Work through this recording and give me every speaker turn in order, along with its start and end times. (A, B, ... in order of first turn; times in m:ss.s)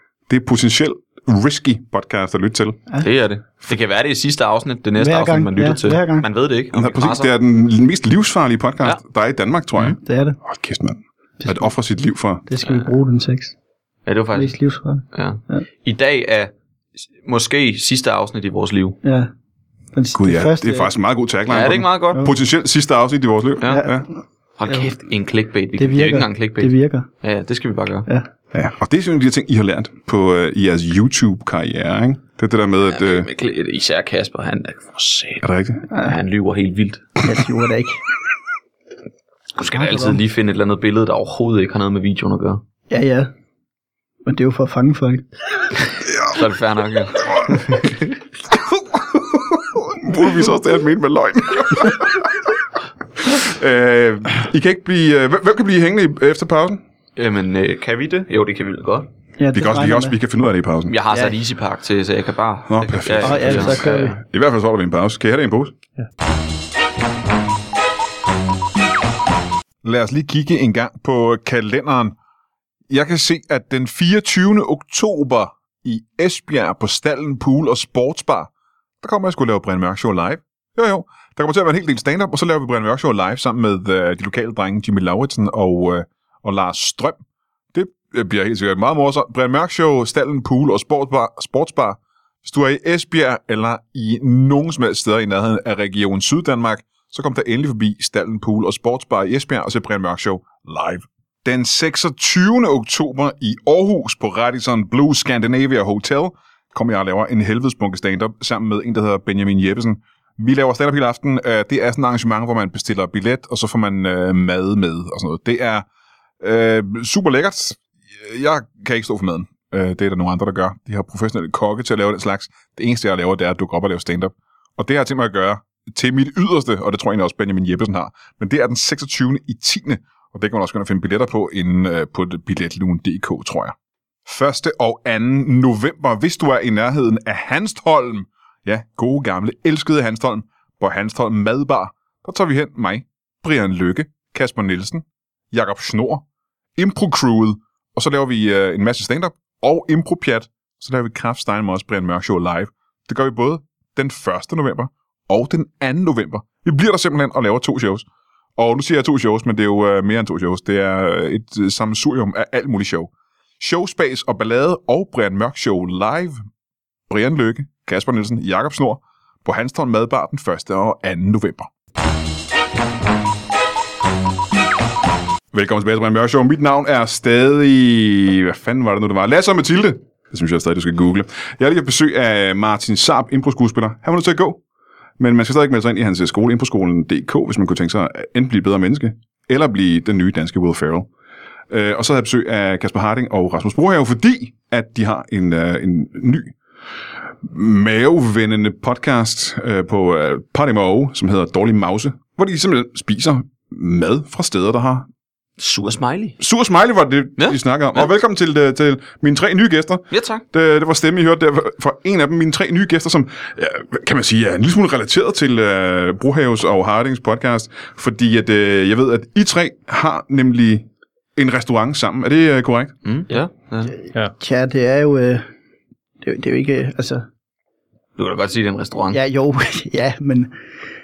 0:00.3-0:02.8 A
0:03.0-0:07.3 B
0:05.0-0:06.3 C
0:06.7-0:12.5 A
0:10.0-0:10.4 C
0:11.4-0:11.7 C
0:12.5-0:13.6 C
0:14.1-0:14.6 B
0:14.4-0:15.6 C
0:15.1-0:16.5 B
0:17.2-0:19.0 B
0:19.0-0:19.3 C
0:19.9-0:20.9 C
0:20.1-0:24.1 A
0:21.5-0:22.3 B
0:23.6-0:24.0 C
0:24.6-0:28.1 B
0:25.8-0:27.1 C
0:28.5-0:33.3 A
0:32.9-0:37.2 B
0:35.4-0:35.8 A
0:37.2-0:38.0 C
0:39.6-0:42.6 B
0:39.6-0:40.2 C
0:42.9-0:43.3 C
0:44.2-0:45.2 C
0:46.3-0:48.1 B
0:49.1-0:52.2 A
0:53.2-0:56.8 A
0:57.2-0:59.1 B
0:59.4-1:00.2 C
0:59.5-1:00.9 A
1:00.9-1:04.1 B
1:02.7-1:05.7 A
1:03.2-1:04.2 C
1:09.8-1:12.2 A
1:12.9-1:18.5 A
1:19.0-1:27.2 A
1:27.7-1:55.8 A
1:56.4-2:26.2 A
2:26.8-2:38.1 A
2:38.6-2:46.4 A
2:47.1-2:51.7 A
2:55.5-3:04.6 A
3:05.2-3:11.1 A
3:11.7-3:16.6 A
3:17.4-3:25.1 A
3:25.6-3:26.4 B
3:26.4-3:40.8 A
3:27.4-3:28.1 B
3:30.1-3:30.4 B
3:41.4-3:42.9 A
3:43.0-3:43.9 B
3:44.4-3:45.4 C
3:46.2-3:47.2 C
3:48.2-3:49.2 B
3:49.1-3:50.5 C